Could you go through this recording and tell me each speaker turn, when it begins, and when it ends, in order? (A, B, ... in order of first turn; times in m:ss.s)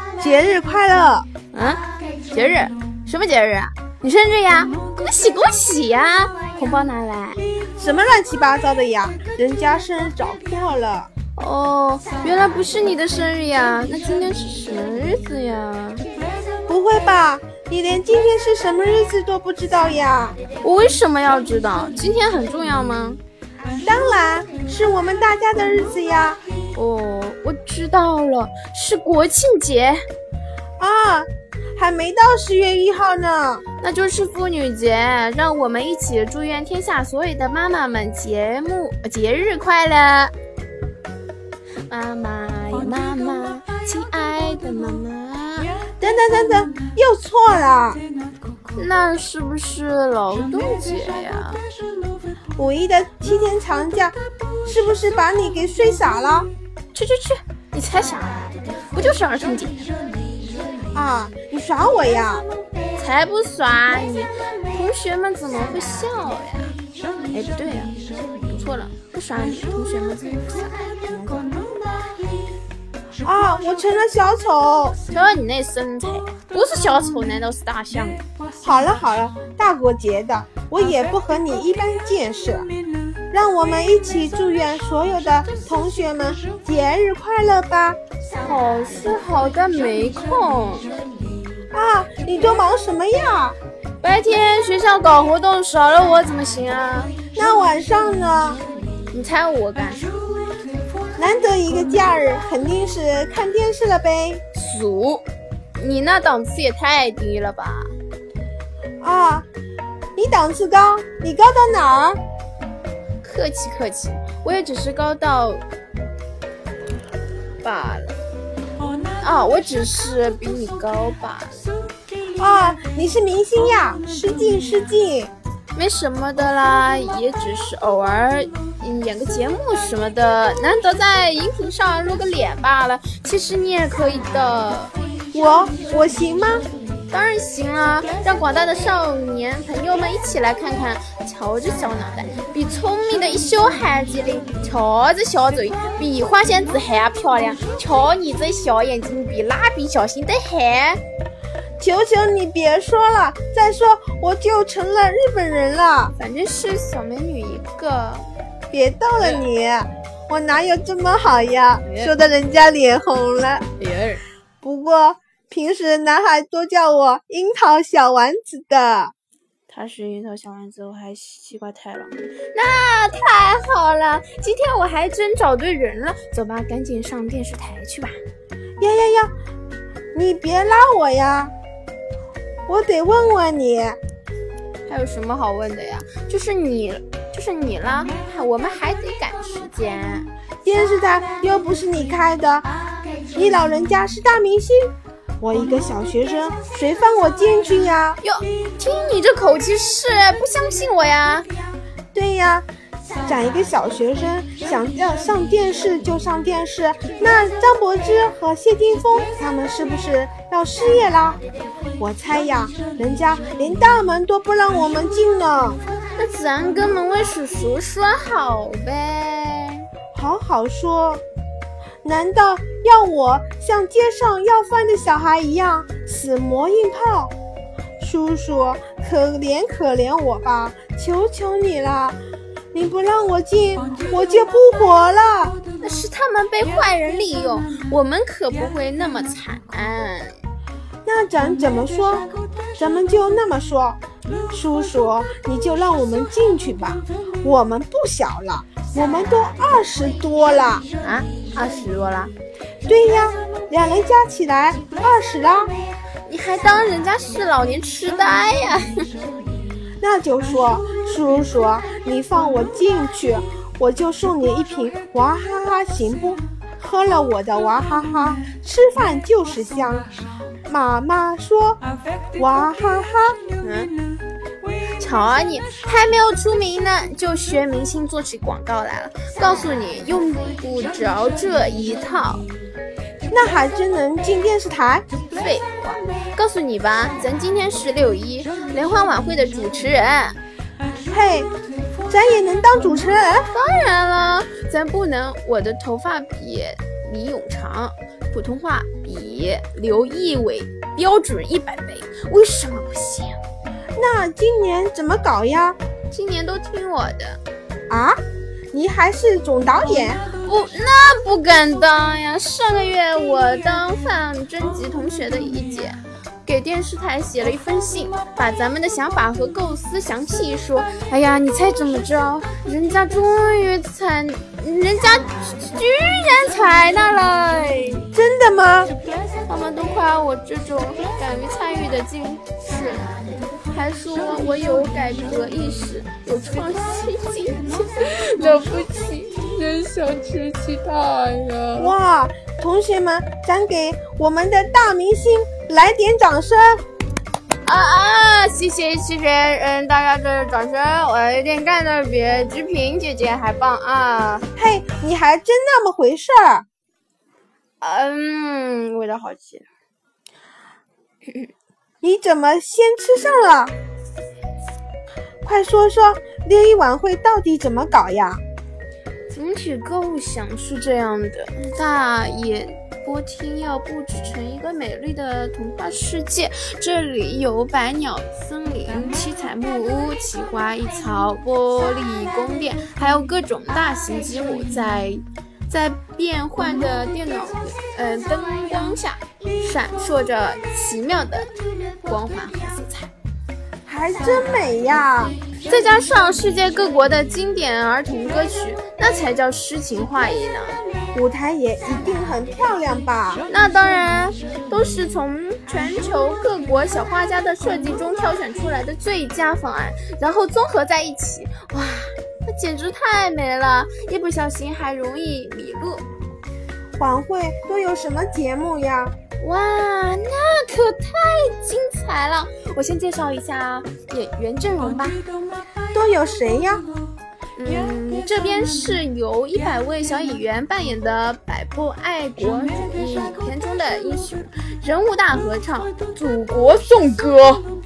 0:00.2-0:01.3 A
0:01.5-0:07.4 B
0:07.8-0:11.1 A
0:11.4-0:16.0 B
0:16.7-0:20.4 A
0:20.6-0:23.2 B
0:23.8-0:26.4 A
0:26.7-0:30.0 B
0:30.8-0:33.6 A
0:33.8-0:40.3 B
0:41.9-0:45.8 B
0:46.0-0:48.0 A
0:48.8-0:51.6 B
0:52.6-0:56.5 A
0:56.9-0:59.9 B
1:00.9-1:02.5 A
1:03.0-1:06.8 B
1:07.3-1:10.8 B
1:11.1-1:11.4 A
1:13.2-1:15.0 A
1:15.1-1:18.2 B
1:18.6-1:22.7 A
1:23.3-1:28.0 A
1:28.4-1:30.9 B
1:31.7-1:33.6 A
1:34.0-1:37.2 B
1:37.3-1:38.6 A
1:39.1-1:40.1 B
1:41.2-1:44.4 A
1:44.5-1:45.2 B
1:45.8-1:47.9 B
1:49.0-1:49.5 A
1:50.2-1:52.2 A
1:53.2-1:55.6 B
1:57.6-1:58.2 B
1:59.2-2:01.7 B
2:02.4-2:05.3 A
2:05.8-2:14.9 B
2:15.3-2:16.7 A
2:17.1-2:31.0 B
2:31.8-2:36.2 A
2:36.2-2:38.3 B
2:38.7-2:43.6 A
2:41.8-2:42.1 B
2:43.8-2:44.2 B
2:44.6-2:49.1 A
2:49.7-2:58.2 B
2:58.8-2:59.3 A
3:00.1-3:01.5 A
3:02.7-3:04.0 A
3:04.9-3:10.3 B
3:10.6-3:12.7 A
3:13.3-3:18.2 A
3:18.2-3:21.5 B
3:22.1-3:22.7 A
3:23.2-3:31.4 A
3:32.0-3:35.8 A
3:36.2-3:39.9 B
3:40.1-3:41.2 A
3:42.0-3:47.3 A
3:48.0-3:52.2 A
3:52.7-3:55.6 A
3:55.8-4:00.4 B
4:01.0-4:04.0 A
4:04.5-4:10.9 A
4:11.0-4:12.3 B
4:12.8-4:15.7 A
4:16.2-4:19.0 B
4:20.0-4:30.1 A
4:30.6-4:31.8 A
4:32.4-4:33.4 A
4:33.6-4:33.9 B
4:35.0-4:42.4 B
4:43.3-4:45.0 A
4:45.3-4:50.4 B
4:51.1-4:51.5 A
4:52.1-4:53.5 A
4:53.5-5:03.4 B
5:04.0-5:05.8 A
5:06.1-5:07.4 B
5:07.9-5:08.2 A
5:08.7-5:10.2 A
5:10.4-5:28.1 B
5:28.1-5:28.9 A
5:29.5-5:33.1 B
5:33.7-5:41.9 B
5:41.8-5:46.8 A
5:47.6-5:54.4 B
5:54.6-5:56.6 A
5:57.8-5:59.7 B
6:02.0-6:03.7 A
6:05.4-6:08.4 A
6:09.3-6:31.5 B
6:32.0-6:33.1 B
6:33.8-6:35.4 A
6:35.7-6:40.8 B
6:41.1-6:43.4 A
6:43.5-6:56.0 B
6:57.0-6:59.1 A
6:59.4-7:05.2 B
7:05.9-7:06.8 A
7:07.6-7:17.7 B